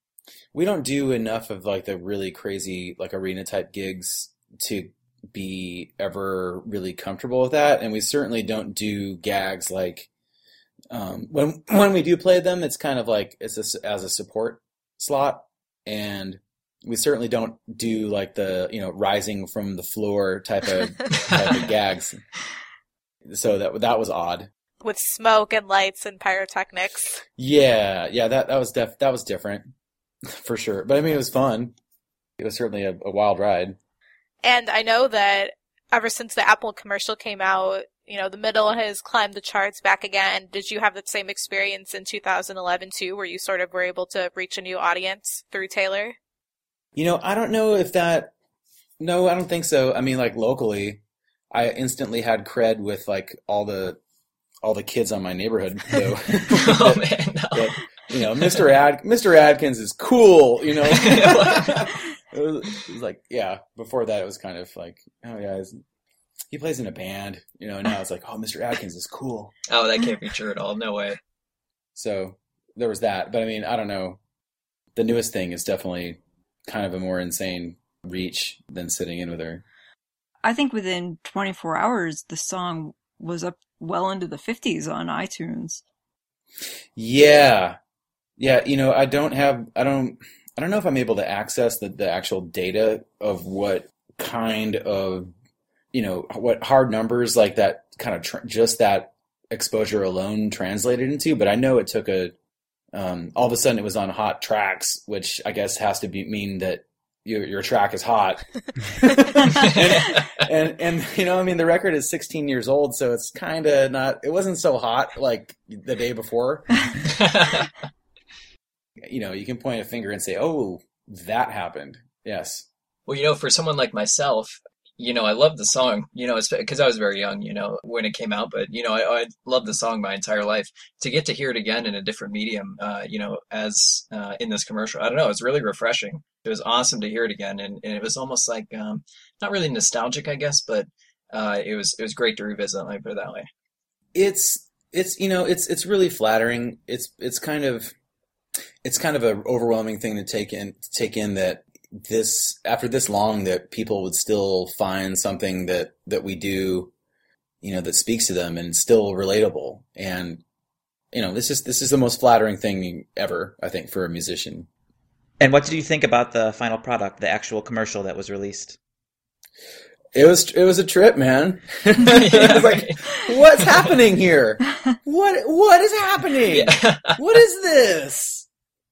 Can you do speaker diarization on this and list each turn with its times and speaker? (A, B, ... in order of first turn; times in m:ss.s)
0:00.5-0:10.1 A
0:10.9-0:22.2 A
0:23.2-0:24.5 A
0:24.8-0:27.2 B
0:27.4-0:29.7 A
0:30.3-0:31.7 A
0:32.4-0:33.8 A
0:34.4-0:46.2 B
0:46.9-0:48.3 A
0:49.0-0:54.0 A
0:54.6-1:05.8 A
0:56.5-0:58.7 C
1:00.9-1:01.8 C
1:06.5-1:09.5 A
1:09.7-1:11.2 C
1:11.9-1:14.2 A
1:15.0-1:19.6 A
1:20.4-1:25.8 D
1:27.0-1:27.8 A
1:28.4-1:35.3 A
1:35.9-1:42.3 A
1:42.9-1:56.7 A
1:57.0-1:57.7 C
1:59.0-2:02.7 A
2:03.1-2:23.5 C
2:24.1-2:27.9 A
2:28.8-2:36.9 A
2:37.6-2:40.4 A
2:41.1-2:44.7 A
2:45.4-2:48.8 E
2:50.1-2:58.4 A
2:52.0-2:53.0 C
2:56.5-2:57.2 C